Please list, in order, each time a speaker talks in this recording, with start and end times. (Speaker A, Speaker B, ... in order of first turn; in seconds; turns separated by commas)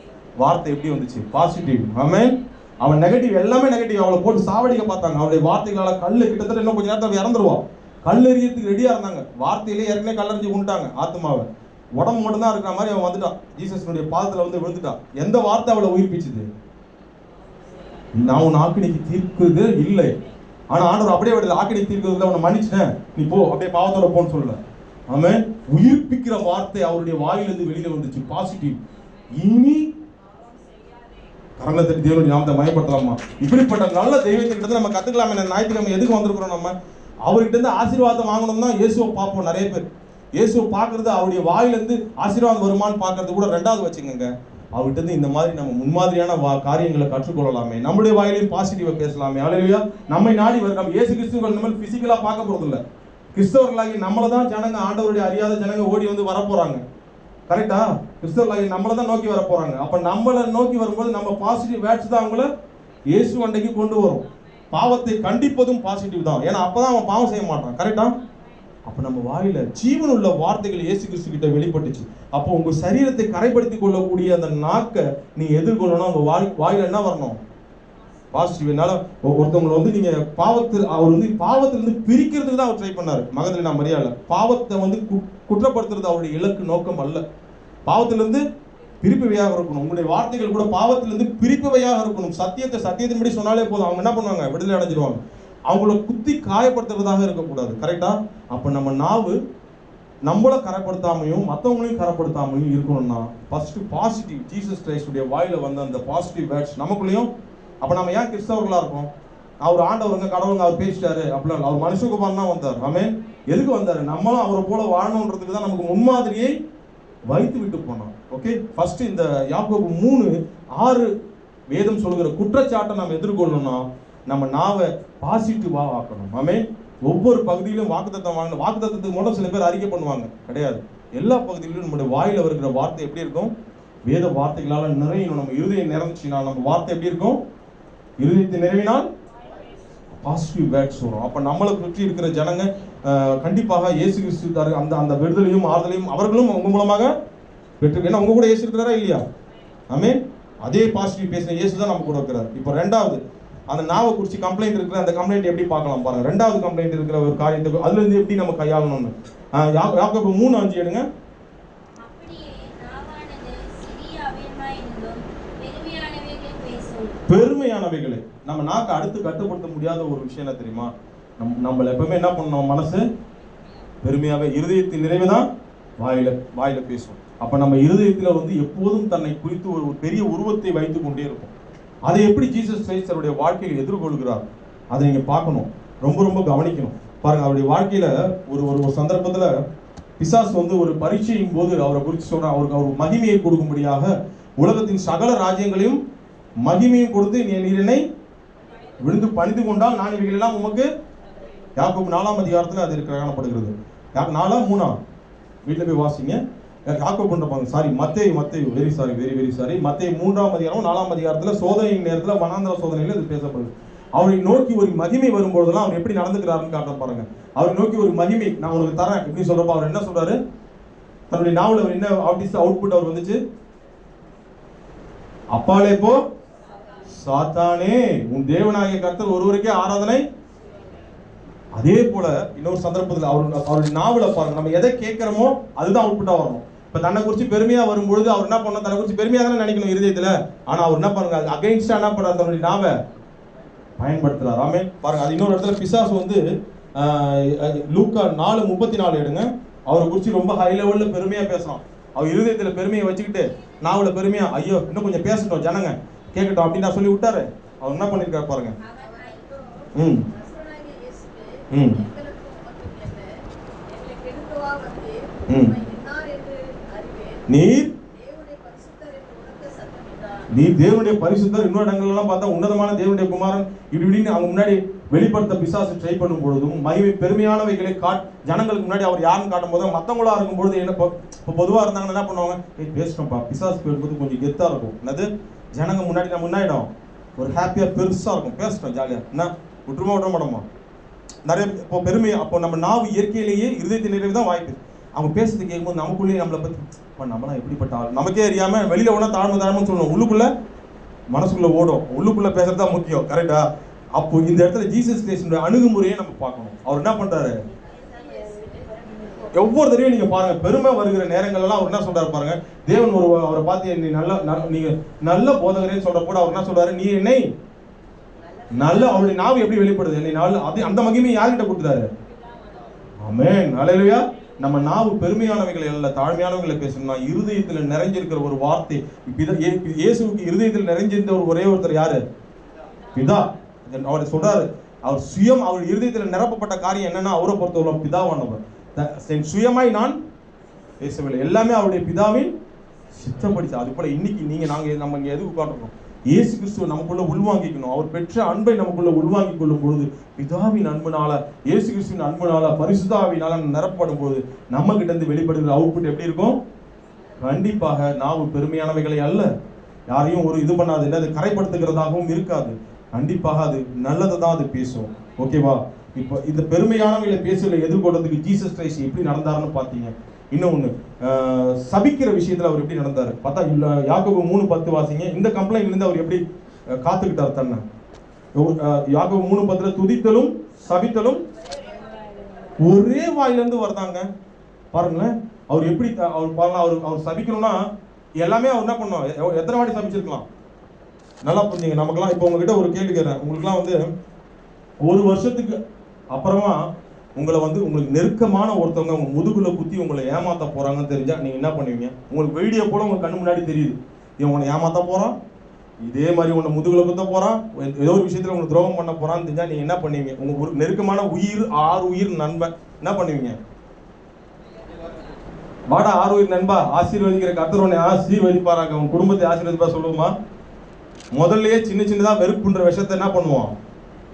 Speaker A: 0.4-16.5, Speaker A: 18.1-20.1, Speaker A: 20.7-24.6, Speaker A: 25.1-28.8, Speaker A: 29.3-29.9, Speaker A: 31.6-36.7, Speaker A: 37.2-52.8, Speaker A: 53.3-56.8, Speaker A: 57.5-62.5, Speaker A: 63.1-68.1, Speaker A: 68.8-77.4, Speaker A: 78.3-87.2, Speaker A: 87.9-88.4, Speaker A: 89.0-99.4, Speaker A: 100.2-107.3, Speaker A: 107.8-109.1, Speaker A: 109.6-116.5, Speaker A: 117.3-121.1, Speaker A: 121.7-133.5, Speaker A: 134.1-137.4, Speaker A: 138.2-139.1, Speaker A: 140.1-147.1, Speaker A: 147.8-149.2, Speaker A: 149.9-161.0, Speaker B: 162.0-167.2, Speaker A: 167.3-173.0, Speaker A: 174.0-175.5, Speaker A: 176.0-181.5, Speaker A: 182.1-189.5, Speaker A: 190.2-196.0, Speaker A: 196.6-198.0, Speaker A: 199.0-200.9, Speaker A: 201.8-205.0, Speaker A: 205.7-220.4, Speaker A: 221.3-223.4, Speaker A: 225.5-226.2, Speaker A: 227.1-230.2, Speaker A: 231.7-243.0, Speaker A: 244.0-246.4, Speaker A: 246.9-258.7, Speaker B: 258.8-259.5, Speaker C: 259.0-263.3, Speaker A: 259.9-260.2, Speaker A: 261.7-262.0, Speaker C: 263.9-267.5, Speaker A: 265.5-265.8, Speaker A: 267.5-267.9, Speaker C: 268.1-270.5, Speaker A: 270.5-290.6, Speaker A: 291.4-300.5, Speaker A: 301.3-303.6, Speaker A: 304.1-307.6, Speaker C: 307.9-309.5, Speaker B: 308.3-309.4, Speaker A: 309.5-317.4, Speaker C: 318.5-319.3, Speaker A: 318.7-322.1, Speaker A: 323.2-332.2, Speaker A: 333.1-340.2, Speaker A: 341.0-342.5, Speaker A: 343.1-356.6, Speaker A: 357.4-359.5, Speaker A: 360.1-377.8, Speaker A: 378.5-381.4, Speaker C: 381.4-382.7, Speaker B: 381.9-382.7, Speaker A: 382.8-384.3, Speaker A: 384.9-387.8, Speaker A: 388.4-390.4, Speaker A: 391.4-394.0, Speaker A: 395.0-395.8, Speaker A: 396.3-396.8, Speaker A: 397.4-405.3, Speaker A: 406.1-413.6, Speaker A: 415.9-420.3, Speaker A: 421.3-423.7